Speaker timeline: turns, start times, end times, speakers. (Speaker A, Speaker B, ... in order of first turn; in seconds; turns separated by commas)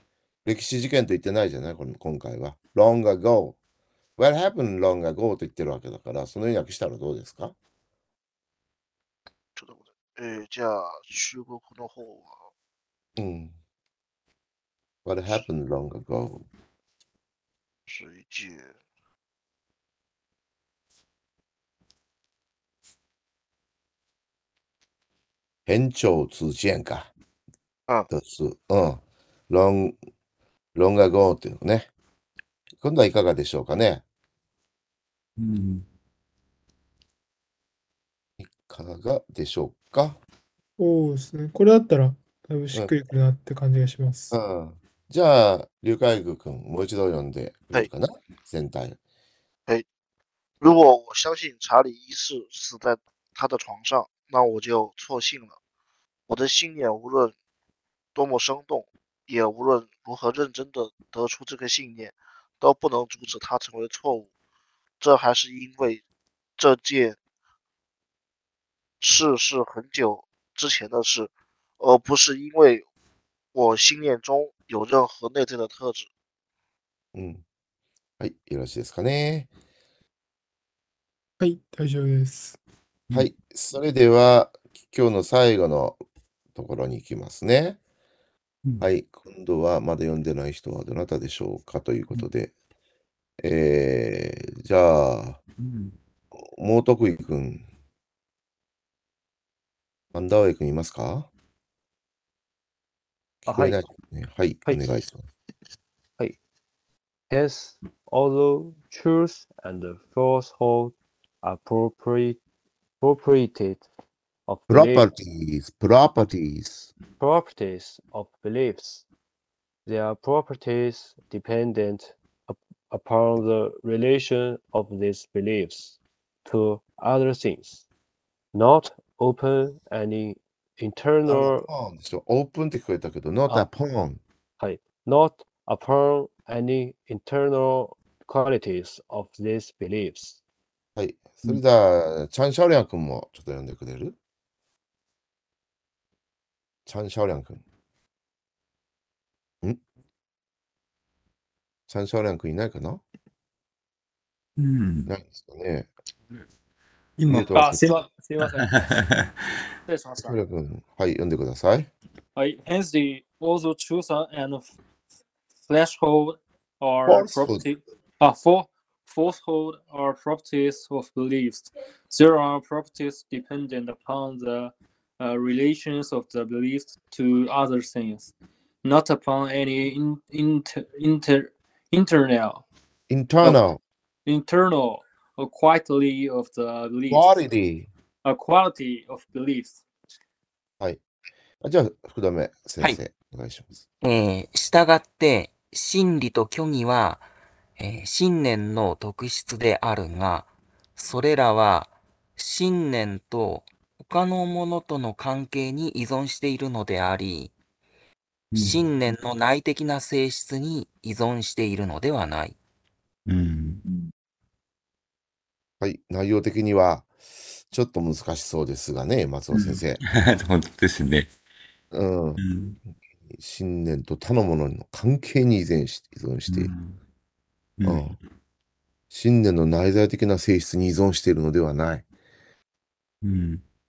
Speaker A: 0.5-3.6, Speaker A: 4.2-7.5, Speaker B: 9.6-12.5, Speaker A: 13.2-13.6, Speaker A: 15.1-16.4, Speaker B: 17.9-18.8, Speaker A: 25.7-27.1, Speaker A: 28.1-30.0, Speaker A: 30.8-31.9, Speaker A: 32.8-34.0, Speaker C: 35.4-35.9, Speaker A: 38.4-40.2, Speaker D: 40.8-44.3, Speaker A: 44.3-49.0, Speaker B: 50.6-55.6, Speaker B: 56.3-57.4, Speaker B: 58.1-64.3, Speaker B: 65.0-66.0, Speaker B: 66.6-67.2, Speaker B: 69.0-72.9, Speaker B: 73.5-76.1, Speaker A: 77.1-77.4, Speaker A: 78.2-79.5, Speaker D: 81.4-82.6, Speaker A: 83.1-86.0, Speaker A: 86.5-87.8, Speaker A: 88.8-92.5, Speaker A: 93.4-95.4, Speaker C: 95.6-96.0, Speaker A: 96.5-97.7, Speaker A: 100.1-101.3, Speaker A: 103.5-105.2, Speaker E: 103.5-103.9, Speaker E: 104.7-105.0, Speaker E: 107.3-112.4, Speaker E: 113.0-113.9, Speaker E: 114.5-115.1, Speaker A: 114.7-116.9, Speaker E: 117.2-119.1, Speaker E: 119.9-127.8, Speaker E: 128.5-131.7, Speaker A: 131.3-134.2, Speaker E: 134.6-140.4, Speaker A: 141.0-144.2, Speaker A: 146.9-147.6, Speaker A: 151.9-153.0, Speaker C: 154.6-155.1, Speaker A: 155.1-155.9, Speaker F: 157.2-158.9, Speaker C: 157.3-157.6, Speaker A: 157.3-157.9, Speaker C: 158.8-159.5, Speaker F: 159.9-160.4, Speaker A: 160.2-161.9, Speaker F: 162.4-164.8, Speaker F: 165.7-178.3, Speaker A: 167.1-167.7, Speaker F: 178.8-182.6, Speaker A: 183.1-183.8, Speaker F: 184.3-187.4, Speaker A: 187.1-187.9, Speaker F: 188.3-189.8, Speaker A: 191.6-193.8, Speaker G: 194.0-197.3, Speaker G: 197.8-207.5, Speaker C: 208.5-208.8, Speaker G: 208.6-212.6, Speaker C: 213.3-214.1, Speaker A: 215.8-217.1, Speaker A: 217.7-220.0, Speaker C: 219.5-221.3, Speaker A: 221.9-222.4, Speaker C: 222.4-222.8, Speaker A: 223.3-226.7, Speaker C: 226.5-227.0, Speaker C: 227.8-228.2, Speaker A: 227.8-228.2, Speaker A: 229.1-232.0, Speaker C: 233.2-233.6